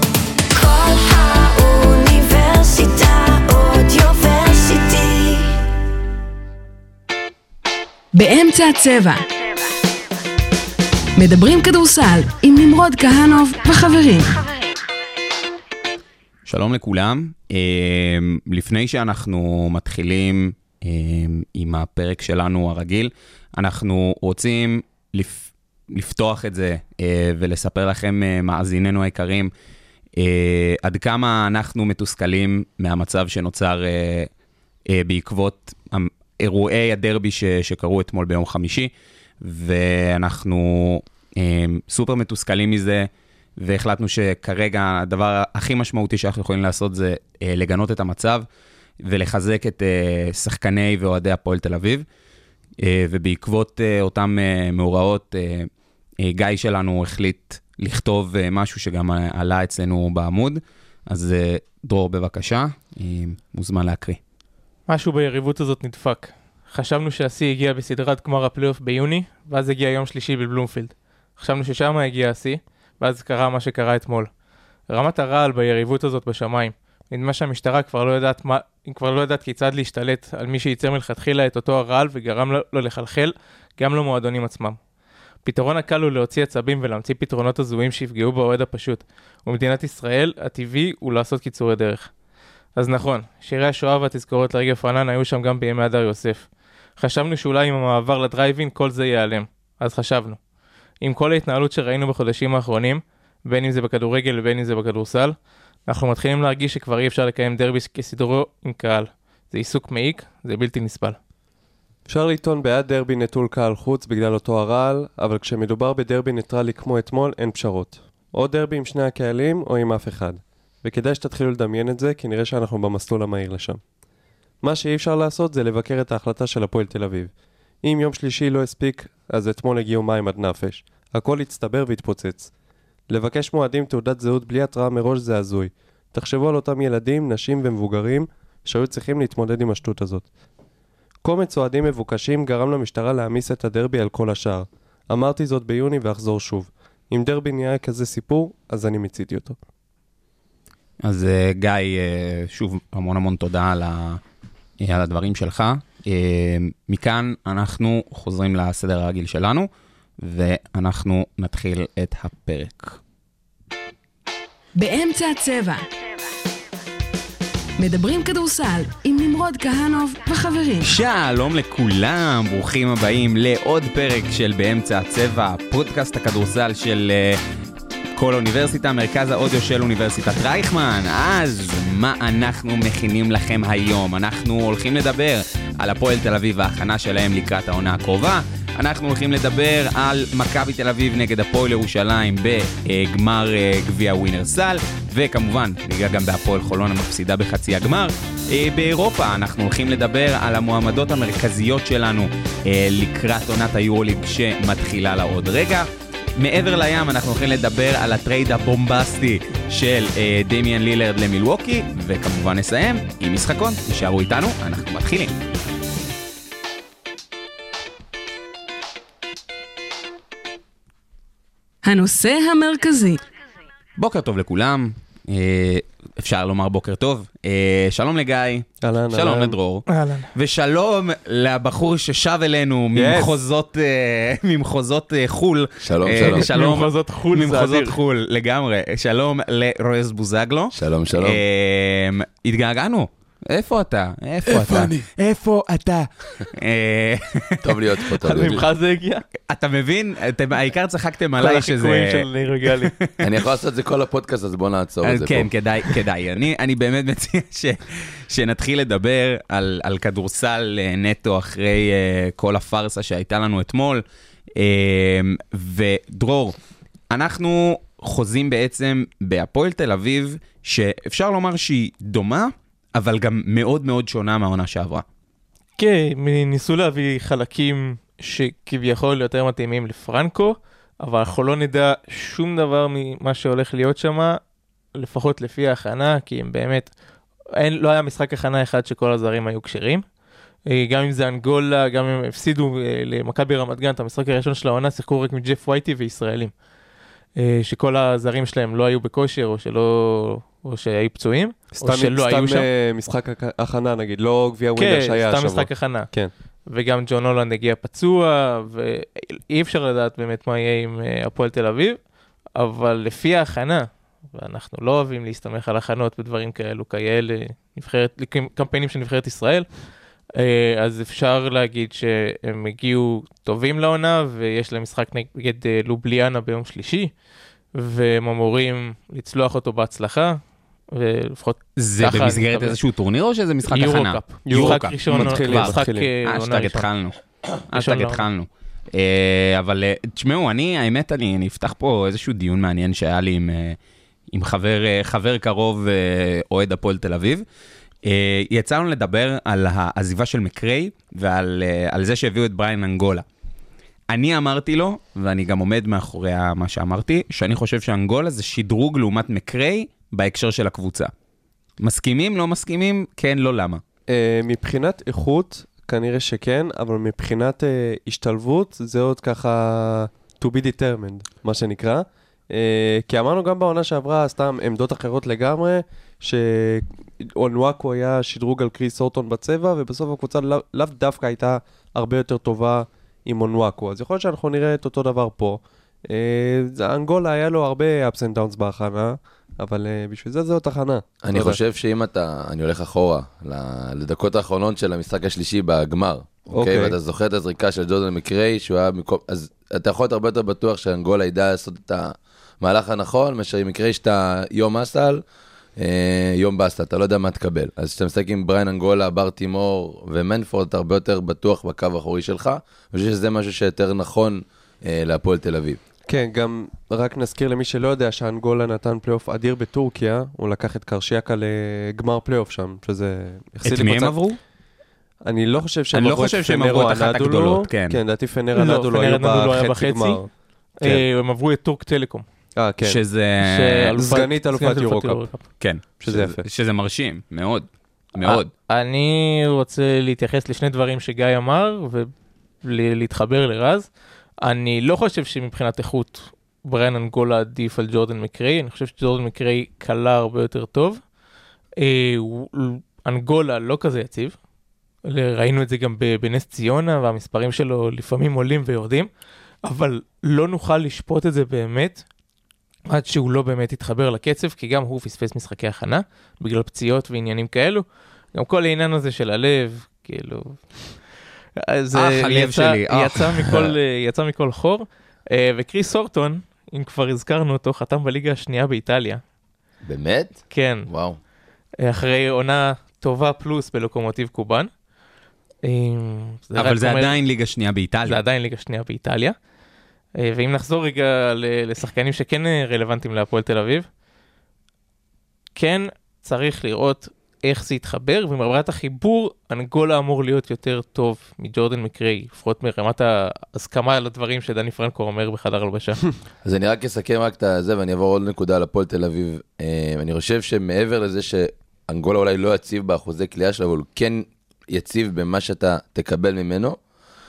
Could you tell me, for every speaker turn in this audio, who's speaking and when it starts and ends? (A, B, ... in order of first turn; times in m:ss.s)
0:00.5-0:05.6 A
0:08.1-0:09.2 B
0:11.2-0:14.4 B
0:16.5-0:29.5 C
0:30.2-0:34.3 C
0:34.9-0:48.4 C
0:49.0-0:52.0 C
0:52.8-0:55.7 C
0:56.2-1:04.2 C
1:04.9-1:14.3 D
1:14.9-1:24.8 D
1:25.4-1:32.1 D
1:32.8-1:36.5 D
1:37.0-1:40.4 D
1:41.0-1:45.3 D
1:45.9-1:51.2 D
1:52.1-2:03.8 E
2:04.6-2:07.3 E
2:07.8-2:12.5 E
2:13.1-2:20.2 E
2:21.2-2:29.6 E
2:31.0-2:34.2 C
2:34.8-2:43.0 C
2:44.8-2:45.8 B
2:47.8-2:50.9 B
2:50.8-2:57.4 C
2:58.2-3:25.8 C
3:26.4-3:35.3 C
3:41.8-3:43.2 B
3:44.0-4:08.6 C
3:48.8-3:49.5 E
3:49.9-3:50.3 D
3:52.9-3:53.4 E
3:55.8-3:56.5 F
3:56.2-3:58.0 D
4:00.7-4:01.4 F
4:04.5-4:05.0 F
4:07.6-4:08.6 F
4:08.2-4:09.2 D
4:09.5-4:13.3 C
4:11.4-4:12.9 D
4:13.2-4:15.5 F
4:15.0-4:24.0 C
4:24.6-4:26.5 C
4:27.1-4:35.0 C
4:35.8-4:44.4 D
4:45.0-4:46.9 D
4:47.6-4:50.0 D
4:50.7-4:56.5 D
4:57.4-5:02.6 D
5:01.8-5:06.3 E
5:04.8-5:06.1 D
5:06.7-5:12.0 D
5:12.6-5:19.7 D
5:20.4-5:27.1 D
5:27.7-5:30.4 D
5:30.9-5:32.8 D
5:31.8-5:43.8 C
5:33.7-5:36.8 D
5:34.5-5:36.1 E
5:37.7-5:38.3 D
5:44.3-5:47.4 C
5:48.0-5:53.2 C
5:54.1-6:01.1 C
6:01.8-6:03.8 C
6:04.1-6:31.6 E
6:31.2-6:45.2 F
6:36.5-6:36.9 E
6:45.8-6:55.8 F
6:56.1-7:04.2 E
7:03.6-7:04.4 C
7:05.2-7:10.2 E
7:05.9-7:08.0 C
7:08.6-7:10.2 D
7:10.8-7:12.2 D
7:12.6-7:13.0 E
7:12.8-7:13.9 C
7:13.4-7:15.4 D
7:14.0-7:15.2 E
7:15.6-7:18.5 C
7:16.0-7:16.4 E
7:18.2-7:22.1 D
7:22.6-7:23.9 D
7:24.4-7:31.0 D
7:31.8-7:34.4 D
7:35.1-7:39.1 D
7:39.6-7:42.0 D
7:42.9-7:47.8 D
7:48.3-7:50.6 D
7:51.6-7:59.2 D
7:51.9-7:53.7 C
7:59.8-8:01.2 F
8:00.5-8:00.9 D
8:01.8-8:04.7 D
8:05.6-8:07.1 D
8:06.6-8:08.2 C
8:08.0-8:09.3 D
8:10.2-8:13.8 D
8:15.6-8:26.0 D
8:26.4-8:36.8 F